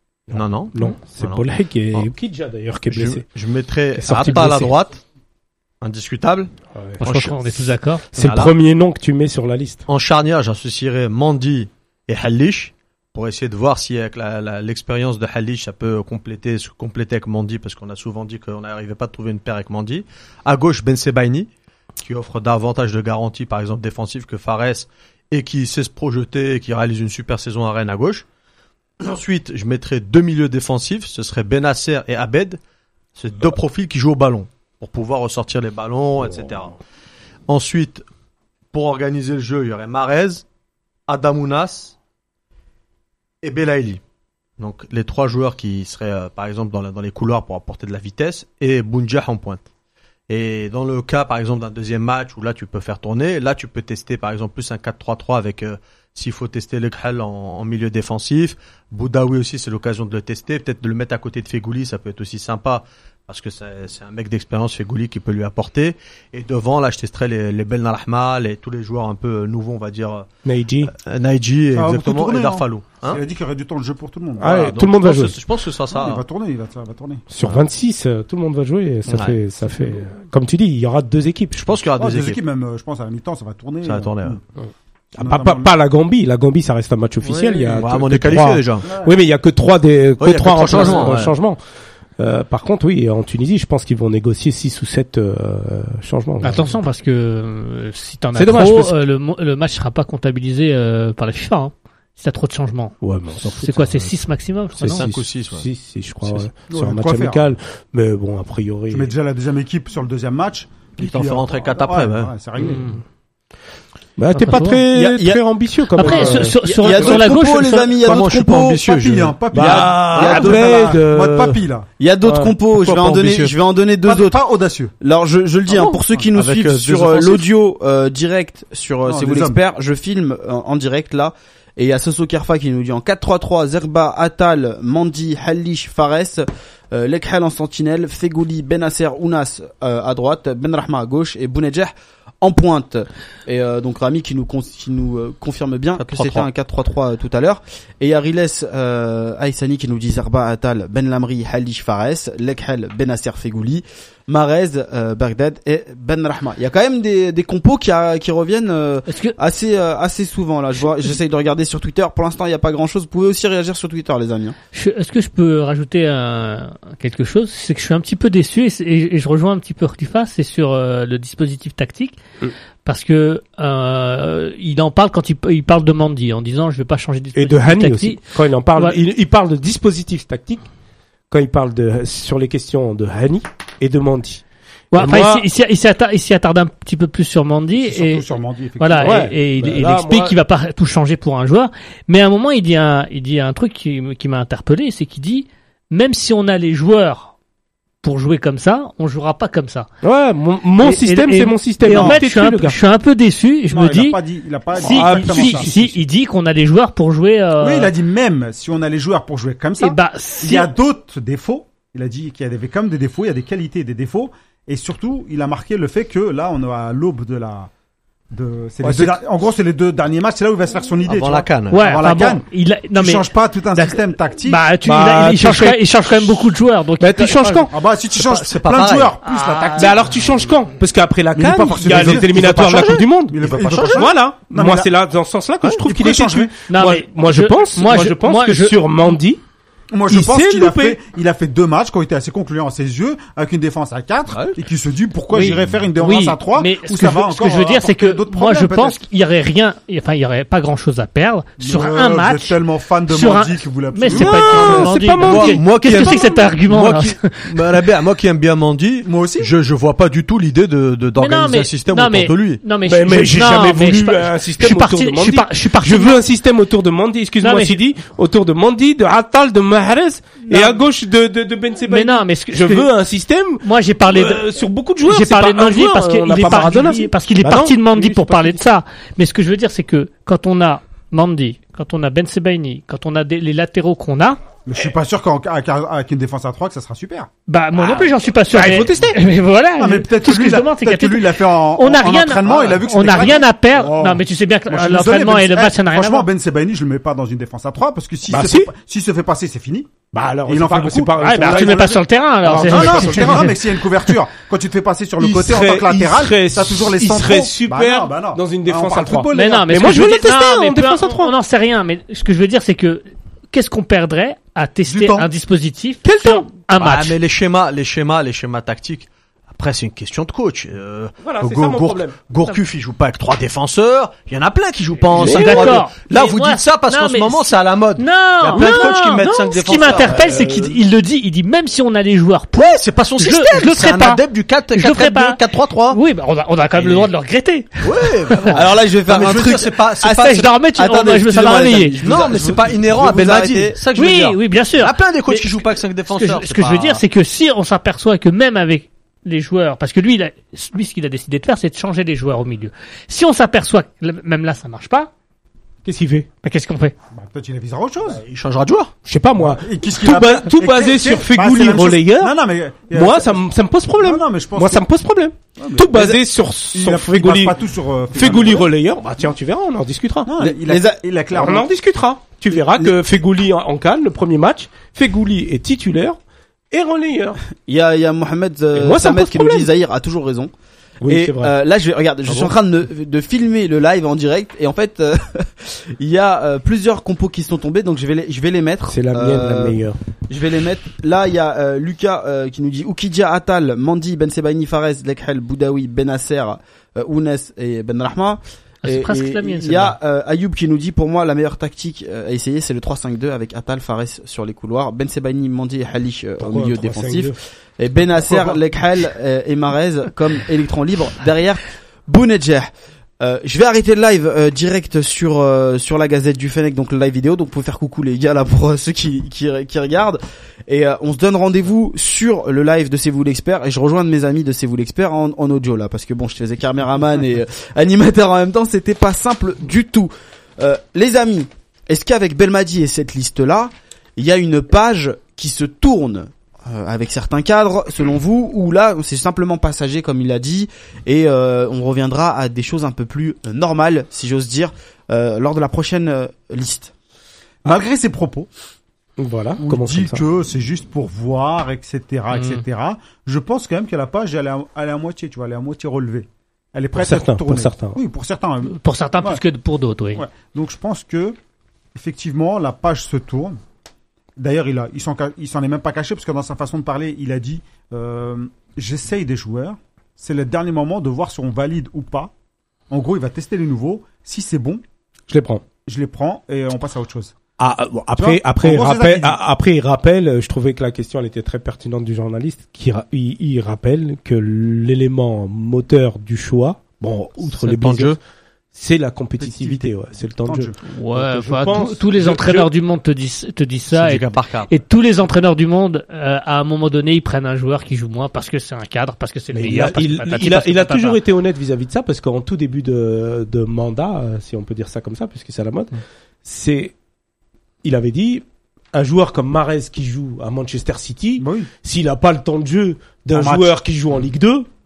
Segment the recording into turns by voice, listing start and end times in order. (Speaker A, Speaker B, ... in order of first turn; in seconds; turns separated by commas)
Speaker A: 0.3-3.3, Speaker B: 0.3-2.1, Speaker B: 2.9-5.0, Speaker A: 4.0-4.8, Speaker B: 5.8-6.5, Speaker A: 6.8-7.0, Speaker C: 7.0-8.1, Speaker B: 7.0-8.5, Speaker A: 8.1-9.8, Speaker B: 9.9-28.2, Speaker B: 29.0-32.6, Speaker B: 33.1-36.8, Speaker B: 37.5-38.0, Speaker B: 38.7-40.5, Speaker B: 41.1-42.0, Speaker B: 43.4-44.0, Speaker B: 44.6-49.6, Speaker B: 50.3-70.3, Speaker A: 70.5-70.9, Speaker B: 70.8-73.2, Speaker D: 71.7-74.8, Speaker A: 74.4-75.4, Speaker B: 74.4-76.2, Speaker D: 75.9-77.2, Speaker A: 77.3-81.6, Speaker B: 79.1-79.4, Speaker B: 81.5-82.4, Speaker D: 82.0-84.4, Speaker B: 83.8-84.4, Speaker A: 85.2-91.6, Speaker D: 85.2-85.7, Speaker B: 87.2-88.9, Speaker D: 88.8-89.2, Speaker B: 90.2-91.3, Speaker A: 92.2-96.7, Speaker C: 96.4-105.0, Speaker A: 98.3-99.0, Speaker A: 103.0-104.1, Speaker A: 104.8-109.1, Speaker B: 104.8-105.7, Speaker D: 106.7-107.4, Speaker D: 108.9-112.8, Speaker B: 111.0-112.3, Speaker C: 112.6-113.0, Speaker A: 112.6-113.0, Speaker A: 114.2-116.6, Speaker C: 114.3-114.9, Speaker E: 114.9-115.4, Speaker C: 116.0-118.0, Speaker D: 116.0-117.4, Speaker E: 116.6-118.8, Speaker B: 118.0-119.4, Speaker D: 118.0-121.9, Speaker E: 119.5-121.0, Speaker A: 119.5-121.6, Speaker E: 122.0-124.4, Speaker A: 122.2-122.5, Speaker B: 122.7-123.5, Speaker D: 124.0-124.9, Speaker E: 125.0-164.6, Speaker B: 126.3-127.5, Speaker D: 129.1-129.6, Speaker B: 146.0-146.5, Speaker C: 159.1-159.3, Speaker C: 164.7-172.2, Speaker C: 172.8-178.2, Speaker A: 177.3-180.7, Speaker A: 181.3-184.4, Speaker C: 184.9-188.3, Speaker A: 184.9-185.5, Speaker D: 187.8-189.3, Speaker C: 188.8-197.3, Speaker A: 189.0-190.3, Speaker C: 198.0-199.9, Speaker A: 200.0-202.8, Speaker C: 200.8-204.2, Speaker D: 203.7-205.9, Speaker C: 204.7-207.9, Speaker A: 204.8-206.0, Speaker D: 207.6-217.7, Speaker C: 209.8-210.7, Speaker D: 218.3-224.6, Speaker A: 218.8-219.2, Speaker B: 221.1-221.8, Speaker C: 221.7-230.0, Speaker A: 224.8-226.3, Speaker A: 227.0-227.7, Speaker D: 227.7-230.0, Speaker B: 228.7-229.2, Speaker A: 229.7-239.4, Speaker D: 231.3-234.9, Speaker B: 231.9-234.1, Speaker D: 235.9-236.6, Speaker C: 236.7-238.8, Speaker D: 239.9-249.0, Speaker A: 240.1-241.0, Speaker B: 244.3-244.6, Speaker C: 245.3-257.7, Speaker D: 251.6-254.8, Speaker A: 254.1-256.4, Speaker B: 254.2-262.6, Speaker D: 259.0-259.5, Speaker C: 261.2-266.2, Speaker A: 262.9-278.6, Speaker C: 267.4-267.8, Speaker C: 270.5-270.8, Speaker C: 271.9-272.9, Speaker C: 273.6-284.4, Speaker D: 284.7-287.3, Speaker C: 287.5-296.3, Speaker A: 287.8-289.2, Speaker D: 289.8-299.9, Speaker A: 298.3-298.7, Speaker A: 300.1-303.6, Speaker D: 300.5-310.1, Speaker C: 301.2-303.6, Speaker A: 305.2-311.3, Speaker C: 309.3-317.2, Speaker D: 314.9-315.3, Speaker A: 316.0-316.5, Speaker B: 316.8-330.7, Speaker A: 321.2-322.2, Speaker C: 325.1-334.2, Speaker A: 325.1-325.8, Speaker A: 328.5-330.7, Speaker B: 332.6-336.0, Speaker C: 334.7-338.6, Speaker E: 336.8-337.1, Speaker B: 337.8-340.5, Speaker E: 338.5-343.8, Speaker C: 340.2-342.2, Speaker B: 342.0-347.0, Speaker C: 343.9-355.1, Speaker A: 355.9-356.3, Speaker C: 356.4-356.9, Speaker D: 357.1-358.2, Speaker B: 358.1-358.9, Speaker A: 359.1-362.4, Speaker D: 359.4-363.4, Speaker A: 362.9-367.6, Speaker D: 364.0-364.9, Speaker D: 365.6-366.2, Speaker D: 366.7-368.7, Speaker A: 368.1-370.3, Speaker D: 370.3-371.7, Speaker E: 370.4-371.0, Speaker A: 371.4-376.2, Speaker A: 376.7-377.4, Speaker E: 377.7-380.5, Speaker A: 378.8-379.7, Speaker A: 381.0-381.5, Speaker E: 381.1-412.7, Speaker A: 382.3-382.5, Speaker A: 388.9-390.0, Speaker C: 398.8-400.0, Speaker A: 406.4-407.4, Speaker D: 408.2-408.6, Speaker E: 413.2-446.9, Speaker D: 447.6-448.5, Speaker A: 449.2-450.2, Speaker D: 449.6-459.4, Speaker C: 452.3-452.6, Speaker A: 456.9-458.0, Speaker C: 458.7-460.2, Speaker D: 460.1-461.4, Speaker D: 461.9-463.6, Speaker D: 464.4-472.3, Speaker D: 472.9-474.8, Speaker A: 475.3-475.6, Speaker D: 475.9-477.4, Speaker A: 477.6-488.2, Speaker D: 478.2-479.4, Speaker B: 487.6-488.2, Speaker A: 488.7-492.7, Speaker D: 489.4-490.8, Speaker C: 490.9-501.2, Speaker B: 493.9-494.7, Speaker A: 499.5-506.9, Speaker A: 507.8-514.7, Speaker D: 511.4-511.7, Speaker D: 513.3-513.7